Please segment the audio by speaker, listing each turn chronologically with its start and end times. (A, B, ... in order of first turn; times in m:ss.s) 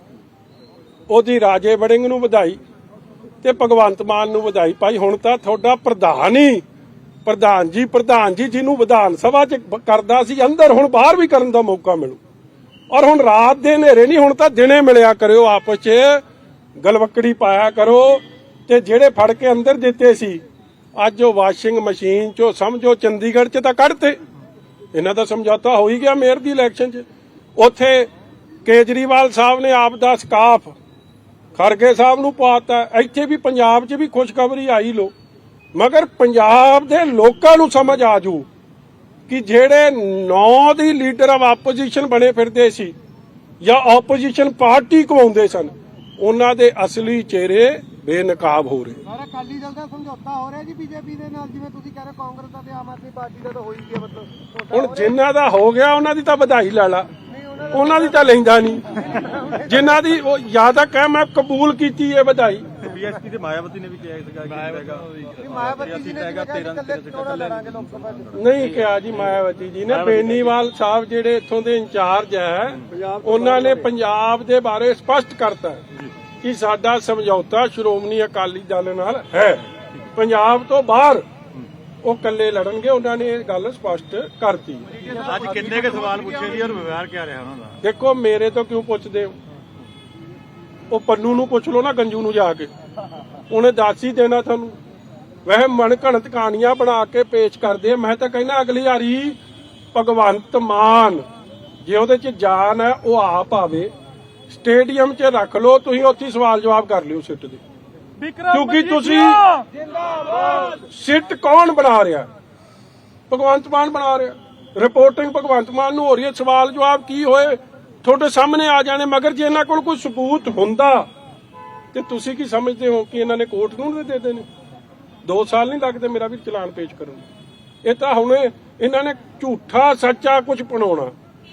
0:01.1-0:02.6 A
0:03.4-0:06.6 A
0:07.2-0:12.2 A
0:12.9-0:16.2 A
0:16.8-0:20.4 A
0:21.0-0:24.2 A
0:24.9-0:27.0 A
0:27.6-0:28.1 A
0:28.6-0:30.8 A
0:31.6-0:35.1 A
0:35.7-0:38.5 A
0:39.3-0:42.9 A
0:43.6-0:49.0 A
0:49.0-0:55.2 B
0:54.7-0:57.1 A
0:57.3-0:59.7 B
0:57.7-0:59.0 A
0:59.6-1:02.7 A
1:02.8-1:08.5 C
1:05.4-1:08.4 B
1:08.3-1:15.8 A
1:09.9-1:10.4 C
1:16.4-1:21.2 A
1:22.0-1:25.0 A
1:25.0-1:26.7 B
1:25.0-1:27.8 C
1:27.8-1:29.3 A
1:30.9-1:32.7 A
1:33.5-1:34.8 A
1:35.4-1:39.4 A
1:39.9-1:41.2 A
1:41.8-1:43.9 A
1:44.5-1:47.6 A
1:48.4-1:49.6 A
1:50.6-1:52.3 A
1:53.3-2:01.1 A
2:01.9-2:04.4 A
2:05.2-2:07.3 A
2:07.8-2:11.1 A